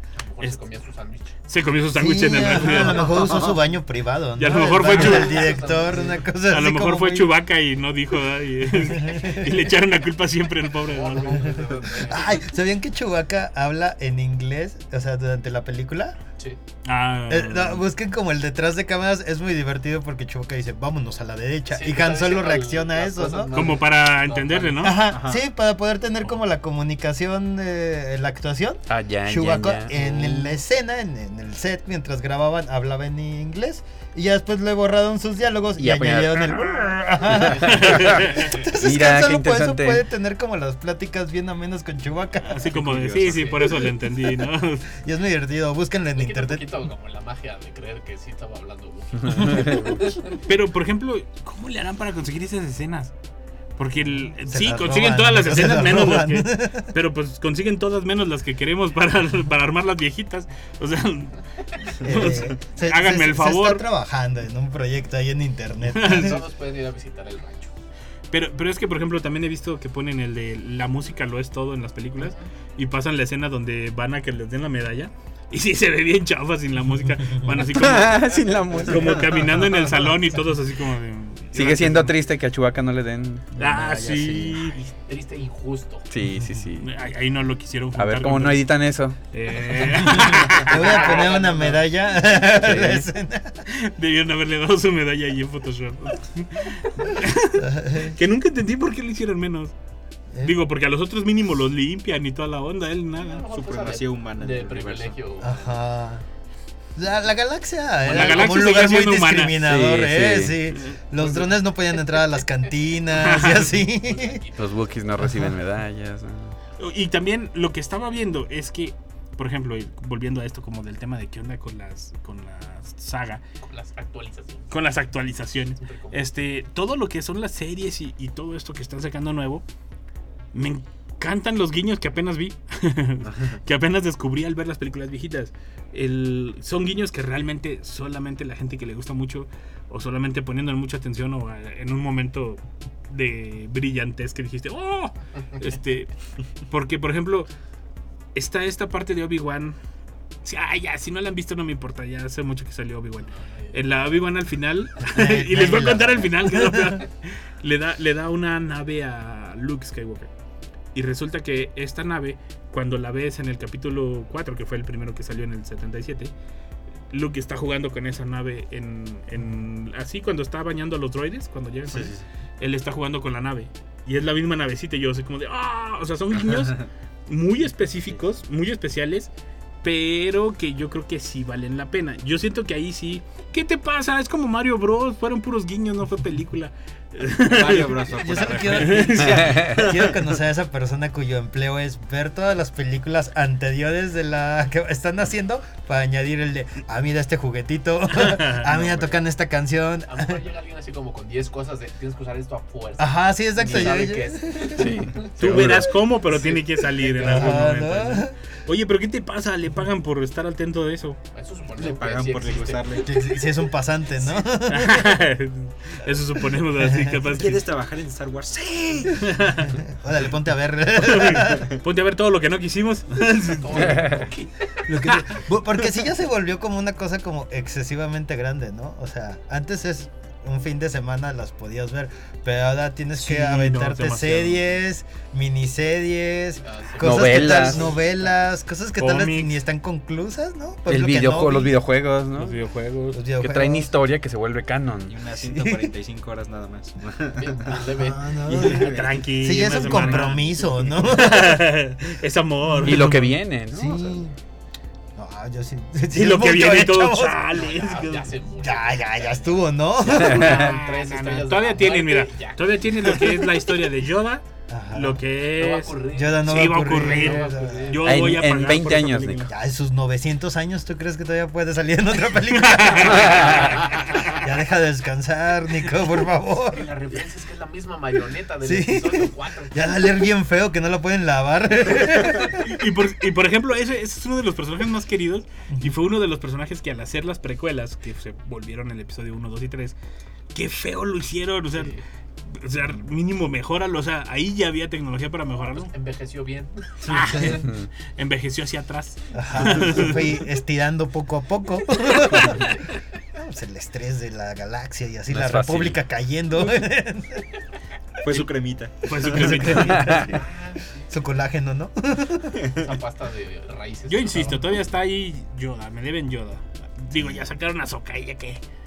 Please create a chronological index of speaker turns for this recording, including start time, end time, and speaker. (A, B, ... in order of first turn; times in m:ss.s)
0:00.2-0:01.3 A
0:01.5-0:03.3 B
0:01.9-0:07.4 C
0:02.6-0:03.5 A
0:03.2-0:03.6 D
0:04.4-0:05.6 B
0:04.5-0:06.3 A
0:06.5-0:11.4 B
0:08.8-0:09.6 C
0:10.8-0:12.5 A
0:11.6-0:11.9 D
0:11.9-0:16.2 C
0:16.8-0:17.8 B
0:17.3-0:23.5 C
0:21.7-0:25.0 A
0:23.5-0:25.1 B
0:24.8-0:42.8 C
0:25.0-0:25.4 D
0:28.9-0:30.5 E
0:35.8-0:36.6 E
0:37.3-0:40.0 E
0:37.6-0:38.3 B
0:42.5-0:44.9 B
0:42.6-0:43.9 D
0:45.0-0:46.8 C
0:46.1-0:50.4 A
0:49.2-0:50.1 E
0:50.4-0:53.1 B
0:53.8-1:01.4 B
0:54.4-0:56.9 C
1:02.0-1:03.8 B
1:02.0-1:06.4 C
1:02.1-1:02.4 D
1:05.9-1:06.4 B
1:06.0-1:07.7 A
1:08.3-1:22.1 B
1:12.2-1:12.5 A
1:17.6-1:19.5 E
1:21.5-1:24.4 E
1:23.6-1:24.8 B
1:24.7-1:26.0 A
1:26.1-1:26.9 E
1:26.8-1:28.7 B
1:27.9-1:29.2 E
1:29.3-1:31.3 B
1:30.0-1:33.6 C
1:30.5-1:31.8 A
1:32.5-1:33.0 E
1:33.7-1:39.7 B
1:37.6-1:38.2 C
1:40.4-1:43.4 B
1:43.2-1:45.8 A
1:43.5-1:45.2 D
1:45.4-1:46.2 C
1:47.0-1:54.4 C
1:48.1-1:48.7 A
1:48.1-1:49.6 B
1:49.6-1:50.6 E
1:50.8-1:51.5 B
1:53.1-1:53.7 B
1:53.4-1:54.9 A
1:54.6-1:56.6 E
1:55.2-1:55.5 C
1:56.8-2:03.4 B
2:03.6-2:04.7 A
2:04.7-2:09.6 B
2:05.8-2:06.3 A
2:10.5-2:26.1 B
2:13.3-2:13.6 D
2:26.7-2:27.5 B
2:28.3-2:29.8 B
2:30.4-2:40.3 B
2:33.2-2:33.8 A
2:35.0-2:37.0 C
2:40.9-2:46.3 B
2:47.1-2:59.3 B
2:51.9-2:52.2 D
2:56.6-2:56.9 D
2:59.8-3:08.0 B
3:07.4-3:10.2 D
3:08.1-3:20.4 C
3:08.7-3:09.4 B
3:09.5-3:09.7 E
3:18.1-3:18.7 B
3:20.1-3:25.8 A
3:23.0-3:25.0 C
3:24.8-3:25.9 E
3:25.4-3:31.2 B
3:27.0-3:27.6 A
3:27.2-3:28.3 C
3:31.3-3:33.1 A
3:31.8-3:33.1 D
3:33.0-3:35.2 C
3:34.6-3:37.6 B
3:36.8-3:37.2 C
3:37.3-3:39.2 D
3:39.2-3:39.8 B
3:39.8-3:41.6 C
3:41.0-3:44.0 B
3:43.6-3:44.5 A
3:43.8-3:44.2 E
3:44.8-4:01.8 C
3:53.2-3:54.6 B
3:56.6-3:58.3 A
3:57.0-3:57.9 E
3:59.0-3:59.5 B
4:00.9-4:02.6 E
4:02.3-4:03.2 B
4:03.1-4:03.9 C
4:03.4-4:05.2 E
4:05.1-4:07.9 D
4:05.4-4:05.9 C
4:07.4-4:08.7 A
4:07.8-4:11.6 C
4:08.4-4:10.4 D
4:08.6-4:13.3 B
4:12.7-4:13.0 C
4:12.8-4:14.2 E
4:13.7-4:14.3 C
4:15.2-4:17.5 C
4:16.1-4:18.3 B
4:17.5-4:23.2 A
4:18.6-4:20.6 C
4:20.2-4:29.4 B
4:20.3-4:20.6 E
4:24.7-4:25.2 C
4:25.5-4:28.1 A
4:26.1-4:28.0 C
4:28.0-4:29.5 E
4:28.7-4:29.4 D
4:29.5-4:36.9 C
4:32.5-4:34.0 B
4:36.7-4:40.1 A
4:38.6-4:42.6 C
4:42.5-4:50.0 B
4:50.5-4:52.0 B
4:51.7-4:52.0 A
4:52.5-4:55.9 B
4:55.7-4:57.3 A
4:57.1-5:00.2 B
4:57.3-4:57.6 C
4:57.5-4:57.9 E
4:59.3-5:02.7 C
5:03.3-5:07.5 C
5:05.3-5:06.0 E
5:08.2-5:09.8 D
5:09.0-5:10.3 B
5:09.2-5:10.4 C
5:09.8-5:10.3 E
5:10.1-5:11.0 A
5:11.1-5:12.6 C
5:12.8-5:14.6 A
5:14.1-5:18.6 B